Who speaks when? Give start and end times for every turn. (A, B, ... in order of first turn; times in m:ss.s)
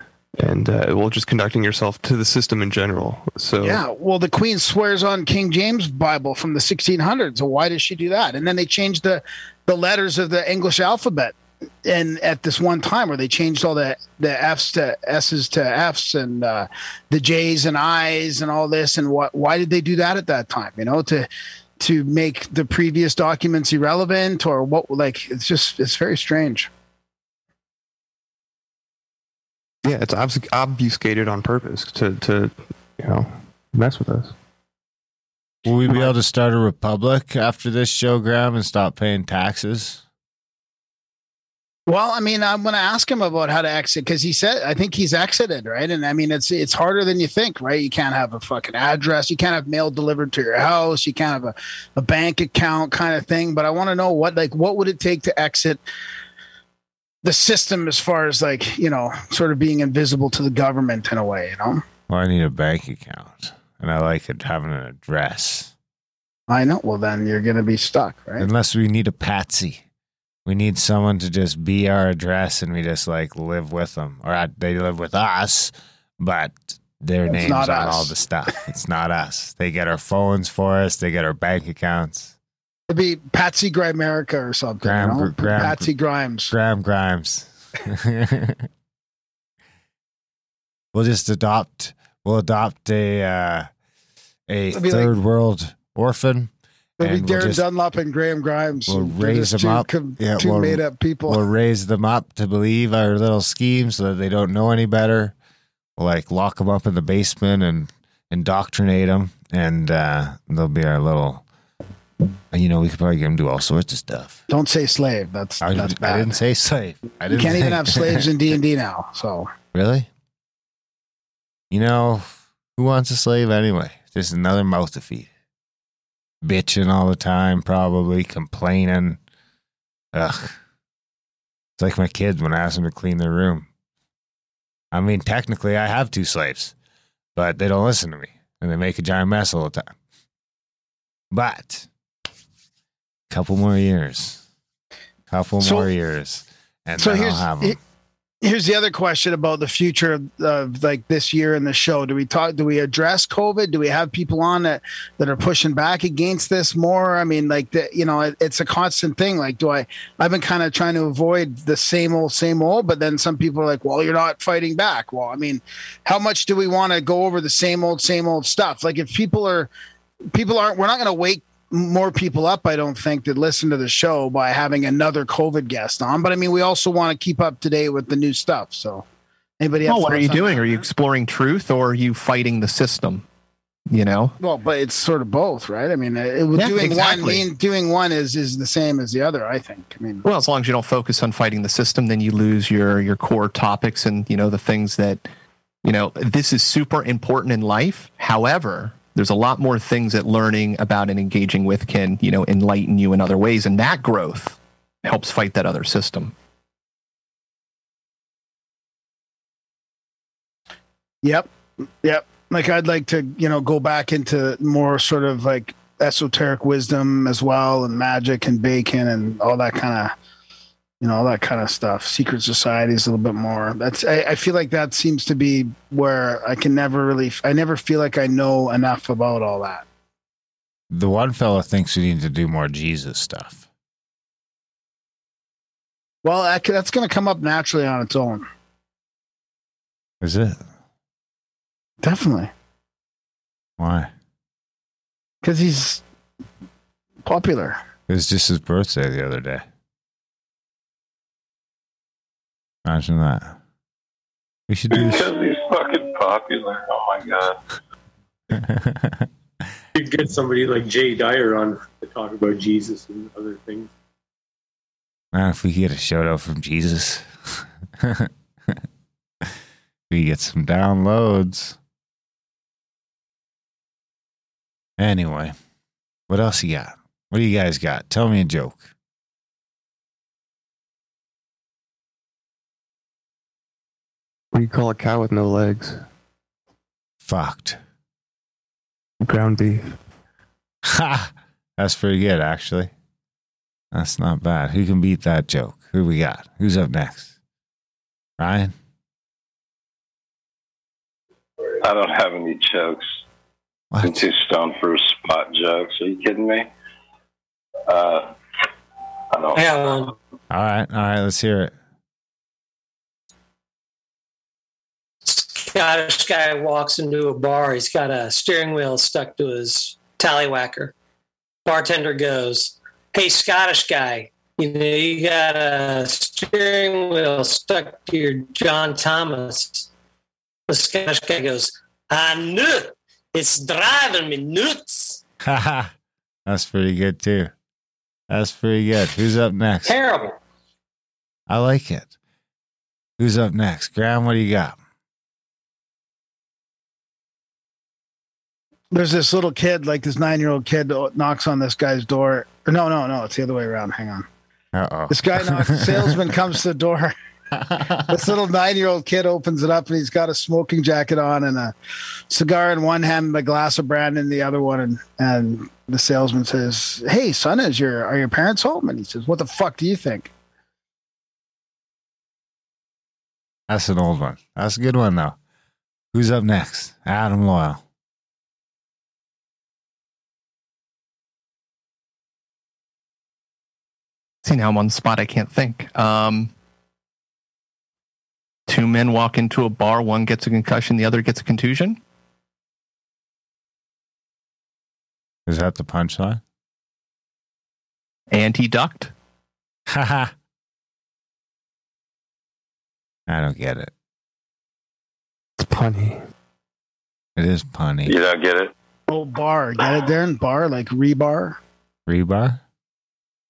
0:00.4-0:03.8 A
0:03.6-0:21.3 B
0:21.8-0:26.7 B
0:29.8-0:34.3 A
0:35.6-0:40.0 C
0:41.9-0:55.8 B
0:57.2-1:01.8 B
1:02.1-1:05.7 C
1:06.5-1:08.5 B
1:08.4-1:09.8 C
1:10.5-1:22.4 C
1:17.3-1:18.1 B
1:22.9-1:26.5 B
1:24.8-1:25.9 C
1:26.5-1:28.7 C
1:30.9-1:33.7 C
1:34.5-1:37.6 C
1:34.7-1:35.1 B
1:37.0-1:41.4 B
1:38.9-1:45.4 C
1:46.0-1:51.4 C
1:52.5-1:54.4 C
1:54.5-1:56.4 B
1:55.6-1:58.3 C
1:57.3-1:59.5 B
1:59.7-2:00.1 C
2:01.7-2:05.3 C
2:06.4-2:09.2 C
2:10.1-2:10.6 C
2:11.8-2:13.7 C
2:14.9-2:16.7 C
2:17.4-2:20.0 C
2:21.3-2:21.9 C
2:23.3-2:24.4 C
2:25.3-2:27.8 C
2:25.6-2:25.9 B
2:27.0-2:27.8 B
2:28.4-2:49.7 B
2:50.3-2:59.0 B
2:59.6-3:00.8 B
2:59.8-3:03.2 D
3:03.9-3:04.4 D
3:04.4-3:10.2 B
3:06.5-3:07.5 D
3:10.2-3:15.2 D
3:15.8-3:26.3 D
3:31.2-3:31.5 B
3:32.0-3:40.1 B
3:41.0-3:49.8 B
3:50.9-3:53.6 C
3:56.2-3:58.5 B
4:00.2-4:00.6 C
4:02.0-4:02.5 B
4:03.8-4:04.1 C
4:05.4-4:06.0 B
4:07.2-4:07.8 B
4:08.1-4:09.7 C
4:12.8-4:13.6 C
4:14.7-4:15.3 C
4:14.9-4:17.6 E
4:18.5-4:19.3 C
4:20.0-4:23.9 F
4:25.3-4:27.3 C
4:28.0-4:28.8 C
4:30.1-4:31.8 C
4:35.0-4:35.6 C
4:36.3-4:38.9 C
4:44.5-4:46.0 A
4:47.2-4:47.8 C
4:49.2-4:50.0 A
4:50.8-4:52.9 C
4:53.9-4:57.3 C
4:58.4-4:58.7 C
5:01.8-5:03.1 E
5:03.9-5:04.2 C
5:04.0-5:06.7 E
5:07.9-5:08.3 E
5:09.3-5:09.6 E
5:09.6-5:10.2 G
5:10.5-5:11.8 C
5:15.2-5:20.9 G
5:21.6-5:29.9 G
5:30.7-5:35.2 G
5:35.4-5:35.9 C
5:36.5-5:37.5 C
5:38.3-5:40.0 C
5:39.8-5:40.4 G
5:41.5-5:42.1 C
5:43.2-5:44.8 C
5:48.9-5:54.3 B
5:54.7-5:56.2 C
5:55.1-5:57.1 B
5:57.5-5:58.3 C
5:58.1-6:01.7 B
6:02.3-6:10.3 B
6:13.7-6:15.4 C
6:16.1-6:17.8 C
6:24.4-6:26.5 D
6:28.7-6:32.0 D
6:35.5-6:36.4 C
6:38.3-6:39.1 D
6:39.9-6:40.3 C
6:43.3-6:43.9 C
6:45.6-6:46.2 A
6:47.4-6:48.1 C
6:48.0-6:48.7 E
6:49.1-6:51.6 B
6:52.1-6:52.6 C